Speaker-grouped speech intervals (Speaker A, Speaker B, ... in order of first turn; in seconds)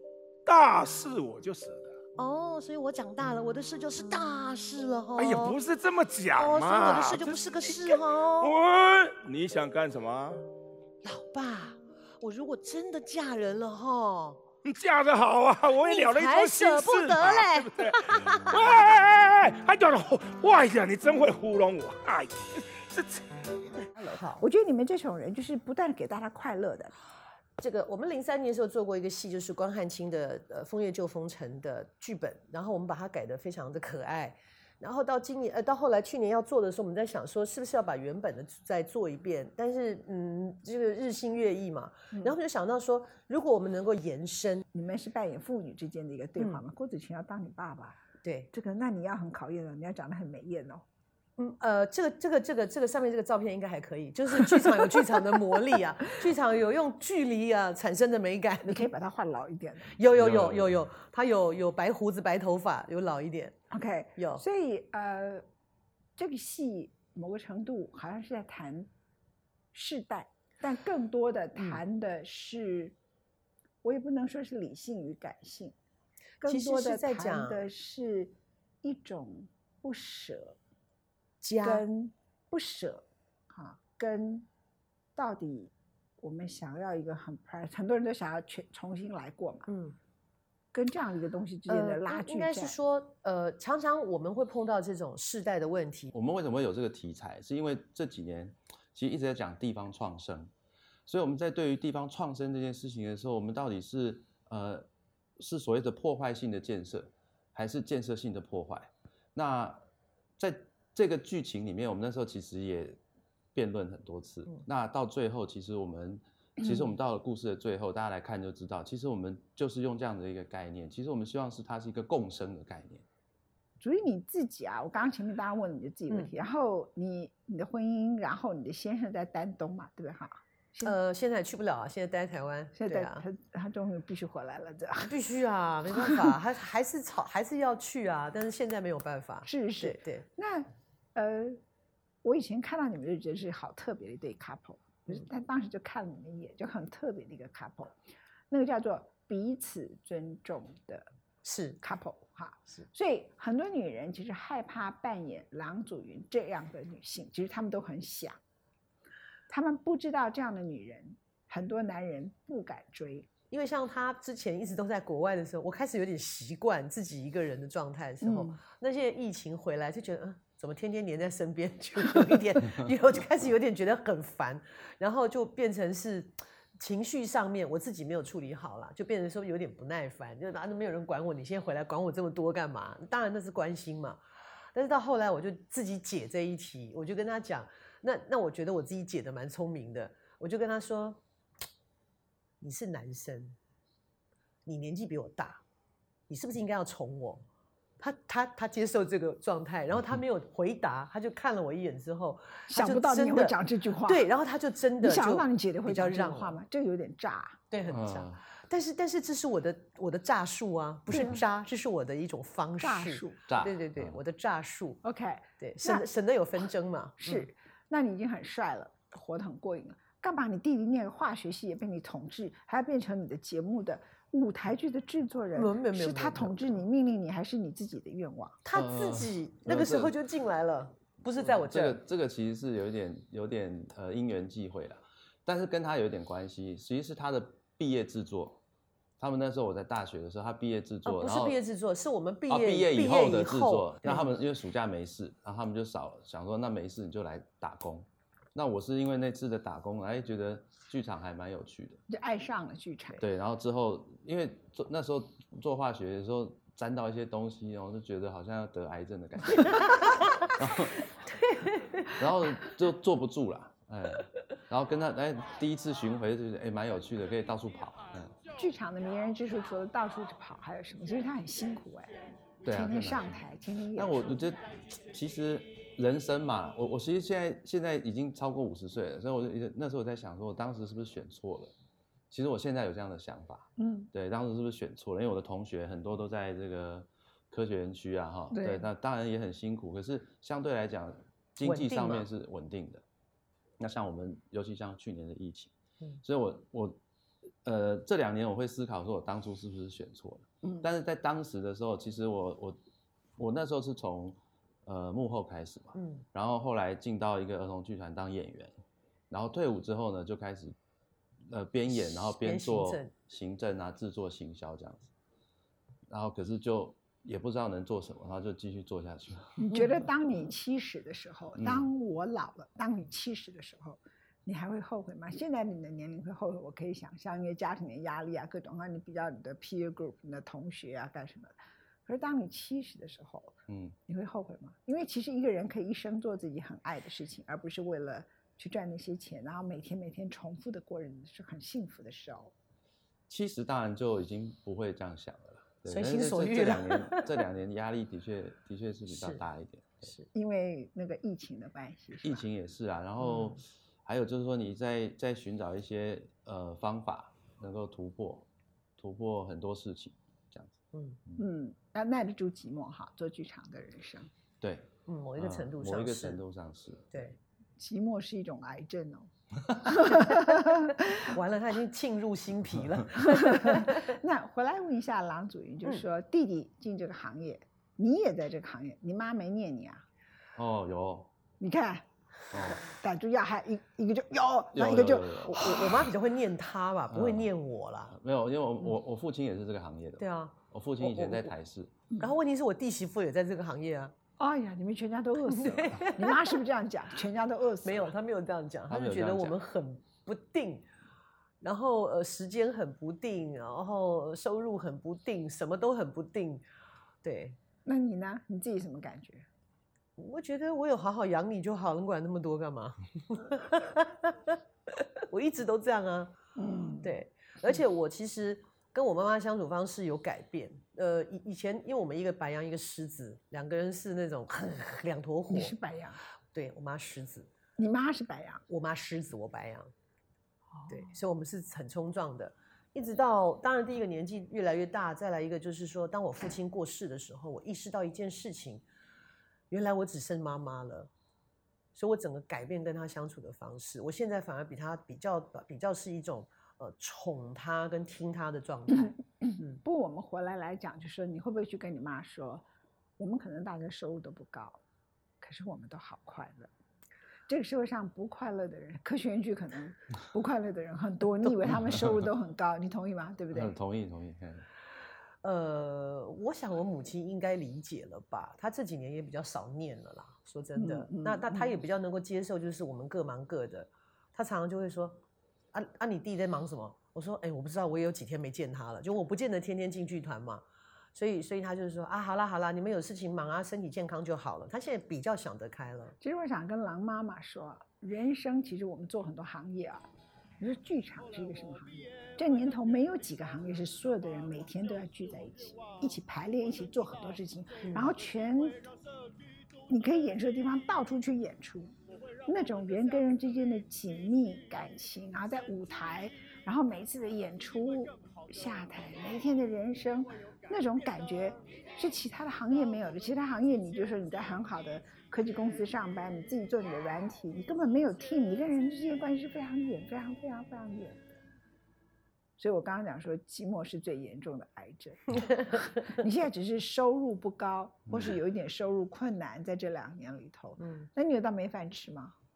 Speaker A: 0.5-1.9, 5.2-10.5, 14.7-23.2
Speaker B: 2.2-5.6, 6.4-8.5, 11.0-14.4, 15.8-18.4, 23.9-24.4, 27.6-44.7, 48.2-48.5, 51.4-58.9, 59.9-63.5, 64.2-64.4, 76.4-77.6, 81.4-81.8, 89.7-90.0, 91.7-96.1, 130.8-133.2, 135.0-140.3, 151.4-151.8, 163.5-184.2, 184.8-191.2, 192.6-193.6, 194.7-195.6, 196.3-197.4, 198.0-206.6, 207.7-215.0, 215.6-217.5, 225.6-226.8, 228.6-232.0, 241.1-244.3, 259.6-260.5, 261.3-262.2, 291.6-292.3, 305.9-306.3, 311.9-313.1, 345.9-347.4, 349.1-349.4, 350.0-350.3, 353.2-353.6, 360.9-361.2, 365.1-366.4, 367.1-367.4, 371.3-374.0, 385.5-388.1, 390.2-391.5, 392.2-394.1, 395.5-396.6, 397.8-400.9, 401.6-406.6, 407.2-407.6, 410.2-416.4, 417.0-425.8, 426.5-427.5, 428.7-429.9, 430.9-438.8, 439.7-441.1, 441.9-449.8, 465.4-475.2, 475.7-480.6, 481.1-486.1, 497.8-498.1, 530.8-531.1
Speaker C: 24.4-26.9, 44.7-48.0, 48.5-50.8, 58.6-59.9, 63.7-65.4, 66.2-68.9, 69.7-73.0, 73.8-75.7, 76.4-80.6, 81.6-84.5, 85.2-89.7, 90.7-92.8, 123.8-131.0, 132.8-135.2, 135.9-136.3, 139.4-141.6, 142.2-147.9, 148.5-151.1, 151.8-158.4, 159.5-163.3, 168.2-168.6, 202.7-204.3, 205.0-207.6, 211.1-211.4, 212.8-213.4, 215.0-216.1, 217.2-228.6, 252.1-253.2, 268.6-274.5, 283.8-284.1, 288.5-288.9, 319.6-331.5, 332.1-342.5, 350.3-352.4, 361.4-364.3, 367.8-371.0, 373.3-380.0, 381.6-382.1, 382.7-385.7, 394.4-398.1, 407.9-409.4, 416.6-417.2, 425.5-426.2, 427.8-428.6, 430.7-431.1, 449.3-452.6, 453.2-454.8, 455.4-456.7, 457.5-463.8, 470.8-471.8, 486.2-490.1, 490.6-498.9, 499.9-501.9, 502.5-521.3, 522.6-532.4
Speaker D: 60.1-60.9, 96.1-100.5, 101.1-104.9, 105.4-109.8, 110.4-113.0, 113.5-123.0, 207.9-208.4, 213.5-214.2, 228.7-230.2, 231.4-238.6, 239.2-241.6, 242.5-252.0, 253.2-259.9, 260.6-261.0, 262.2-268.3, 272.6-273.4, 273.9-281.7, 282.3-293.0, 293.8-295.7, 296.2-297.0, 297.6-302.8, 303.4-308.8, 309.3-310.8, 311.5-315.1, 316.1-320.0, 321.6-321.9, 333.7-334.0, 343.3-350.1, 352.2-358.5, 359.0-361.4, 364.6-367.2, 380.6-381.3, 382.5-382.9, 384.7-386.0, 387.1-387.5, 388.1-391.9, 398.9-399.6, 463.5-464.6, 528.1-528.4